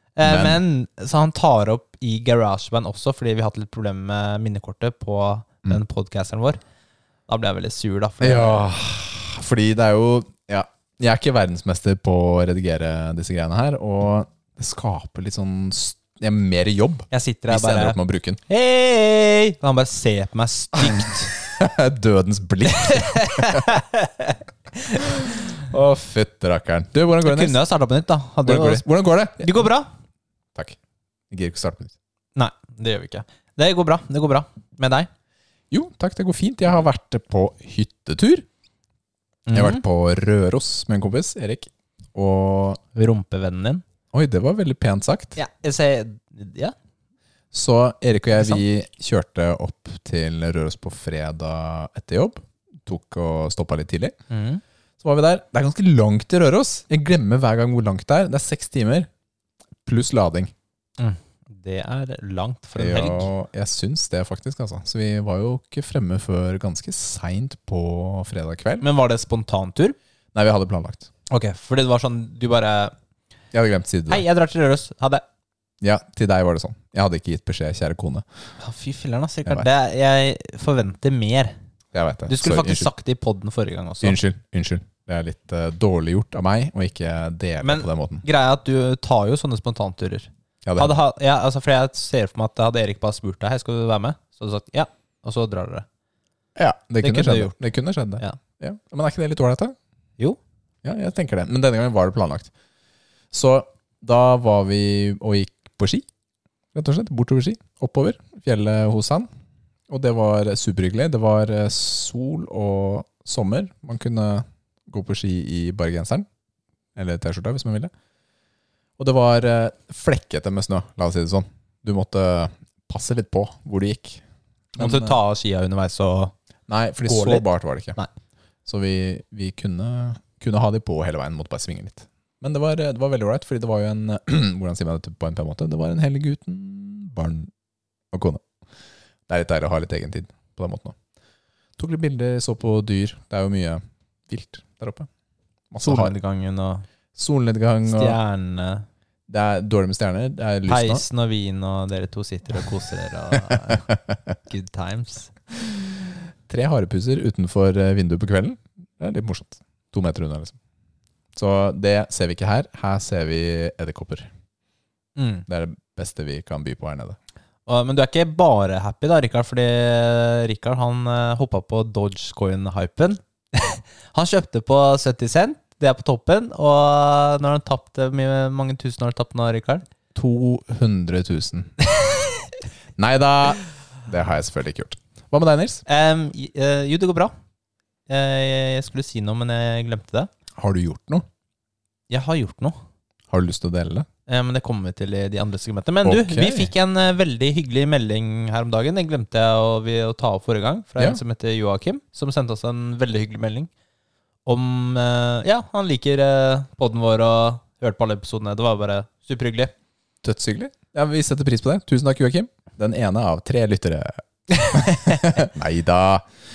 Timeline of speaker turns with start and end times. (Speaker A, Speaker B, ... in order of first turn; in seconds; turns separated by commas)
Speaker A: 0.1-6.6, Speaker B: 0.2-0.6, Speaker A: 7.3-8.7, Speaker B: 8.2-18.4, Speaker A: 17.1-18.0, Speaker A: 18.5-21.3, Speaker B: 20.8-23.7, Speaker A: 22.7-25.4, Speaker B: 25.2-27.6, Speaker A: 27.2-28.9, Speaker B: 28.4-29.7, Speaker A: 29.4-29.9, Speaker B: 31.3-31.9, Speaker A: 32.4-35.1, Speaker B: 35.7-38.5, Speaker A: 39.5-39.8, Speaker B: 39.5-42.8, Speaker A: 42.9-43.8, Speaker B: 44.1-45.4, Speaker A: 45.4-46.7, Speaker B: 47.5-54.1, Speaker A: 48.3-48.6, Speaker A: 54.3-54.6, Speaker B: 55.0-59.1, Speaker B: 59.9-60.5, Speaker A: 61.0-63.3, Speaker B: 62.8-68.8, Speaker A: 68.8-70.0, Speaker B: 70.3-71.1, Speaker A: 71.3-72.9, Speaker B: 73.5-74.2, Speaker A: 74.1-75.2, Speaker B: 75.8-78.2, Speaker A: 78.6-81.5, Speaker B: 81.9-82.9, Speaker A: 82.3-84.2, Speaker B: 84.0-88.2, Speaker A: 87.6-95.8, Speaker B: 90.6-91.0, Speaker B: 96.5-99.7, Speaker A: 97.0-97.5, Speaker B: 100.8-102.5, Speaker B: 103.3-106.1, Speaker B: 106.7-109.3, Speaker B: 109.9-116.2, Speaker B: 117.0-117.9, Speaker B: 119.0-124.2, Speaker B: 124.7-125.2, Speaker A: 124.8-126.3, Speaker B: 126.7-128.0, Speaker A: 127.0-127.4, Speaker B: 128.7-137.5, Speaker B: 138.1-138.4, Speaker B: 139.3-140.9, Speaker B: 141.8-145.1, Speaker B: 145.7-146.1, Speaker A: 145.8-146.8, Speaker B: 147.1-148.2, Speaker A: 147.8-148.8, Speaker B: 149.3-151.0, Speaker A: 150.7-153.9, Speaker B: 153.5-154.2, Speaker A: 154.5-155.8, Speaker B: 156.5-160.6, Speaker B: 161.3-164.3, Speaker A: 165.2-165.4, Speaker B: 165.5-167.2, Speaker A: 167.7-179.8, Speaker B: 180.1-181.7, Speaker A: 181.9-182.5, Speaker B: 183.0-185.8, Speaker A: 185.8-187.3, Speaker A: 188.1-190.3, Speaker B: 190.6-191.2, Speaker A: 192.1-192.8, Speaker B: 193.3-194.1, Speaker A: 194.3-203.7, Speaker B: 196.0-196.7, Speaker A: 204.4-209.7, Speaker B: 210.2-216.2, Speaker A: 214.5-215.3